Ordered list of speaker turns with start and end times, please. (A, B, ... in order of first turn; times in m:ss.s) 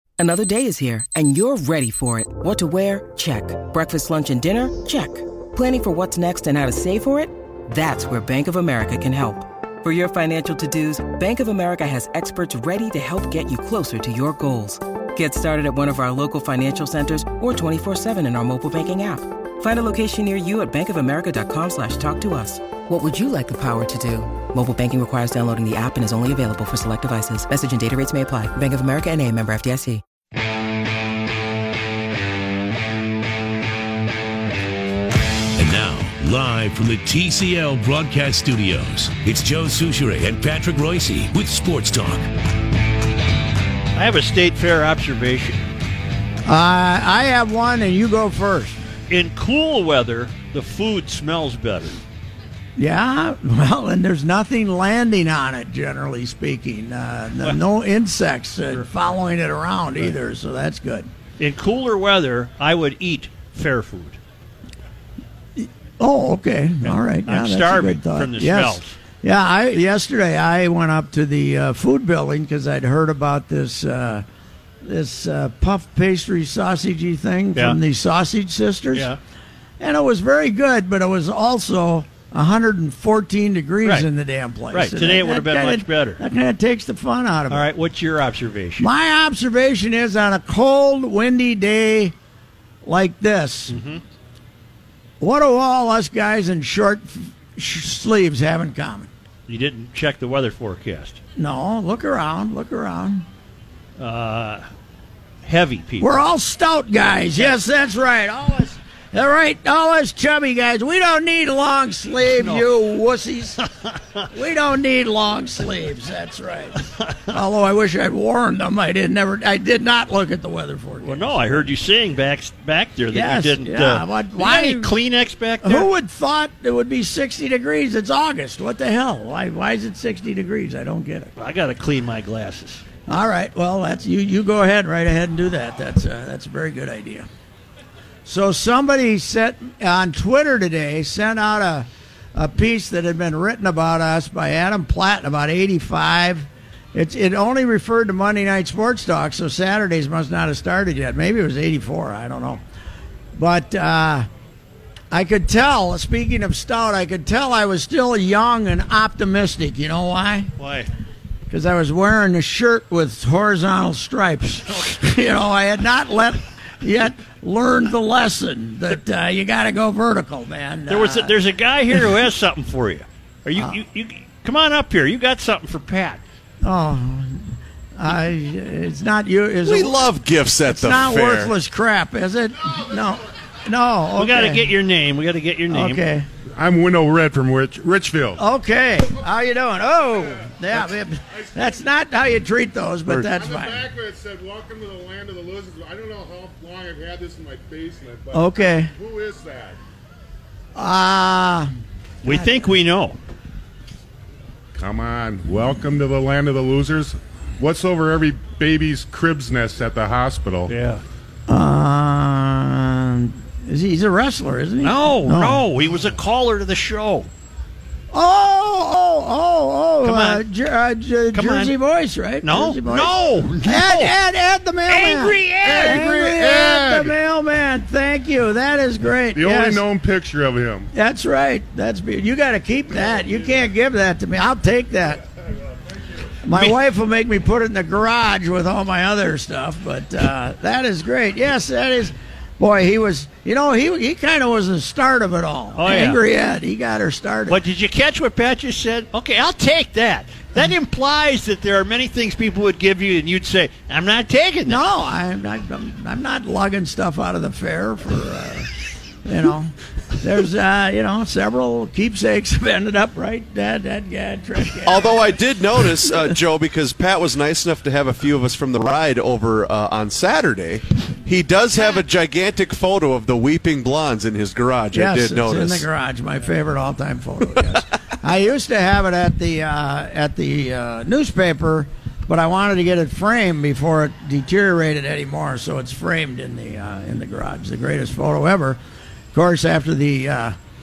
0:00.2-0:30.0 A
0:35.6-0:42.3 B
0:43.9-0:45.6 C
0:46.4-0:48.8 D
0:49.1-0:52.0 C
0:52.8-1:01.1 D
1:01.4-1:04.2 C
1:05.6-1:14.2 D
1:06.8-1:08.9 C
1:14.8-1:19.1 D
1:18.9-1:19.2 C
1:19.8-1:27.6 D
1:24.7-1:26.2 C
1:27.5-1:28.9 C
1:28.8-1:32.1 D
1:32.8-1:33.8 D
1:33.7-1:34.0 C
1:35.2-1:39.1 D
1:39.5-1:41.2 C
1:41.4-1:43.3 D
1:44.0-1:44.6 C
1:45.4-1:46.2 C
1:46.0-1:53.6 D
1:52.3-1:52.6 C
1:53.8-1:54.2 C
1:54.3-2:01.7 D
2:01.0-2:05.9 C
2:03.1-2:04.9 D
2:05.6-2:11.3 D
2:11.4-2:12.8 C
2:13.1-2:17.3 D
2:18.2-2:32.6 D
2:33.3-2:34.3 D
2:35.1-2:40.5 D
2:40.6-2:40.9 C
2:41.5-2:51.3 D
2:50.9-2:56.2 C
2:56.6-3:00.1 D
2:59.6-3:01.5 E
3:00.6-3:04.6 D
3:04.2-3:06.0 C
3:05.7-3:06.3 D
3:06.6-3:08.4 F
3:08.4-3:13.9 D
3:13.2-3:19.8 F
3:18.3-3:18.9 D
3:20.7-3:21.7 D
3:22.2-3:23.2 C
3:24.8-3:30.7 F
3:30.7-3:31.0 C
3:31.5-3:35.6 D
3:34.8-3:37.3 C
3:38.1-3:49.8 D
3:40.0-3:40.4 C
3:41.3-3:41.7 C
3:42.4-3:44.1 C
3:44.9-3:46.1 C
3:45.6-3:47.2 F
3:49.3-3:50.9 F
3:50.9-3:55.2 D
3:56.4-4:07.6 D
4:05.8-4:06.2 C
4:07.5-4:14.8 C
4:14.7-4:18.7 D
4:19.2-4:25.4 D
4:24.8-4:35.8 E
4:34.9-4:48.8 D
4:49.3-4:50.6 D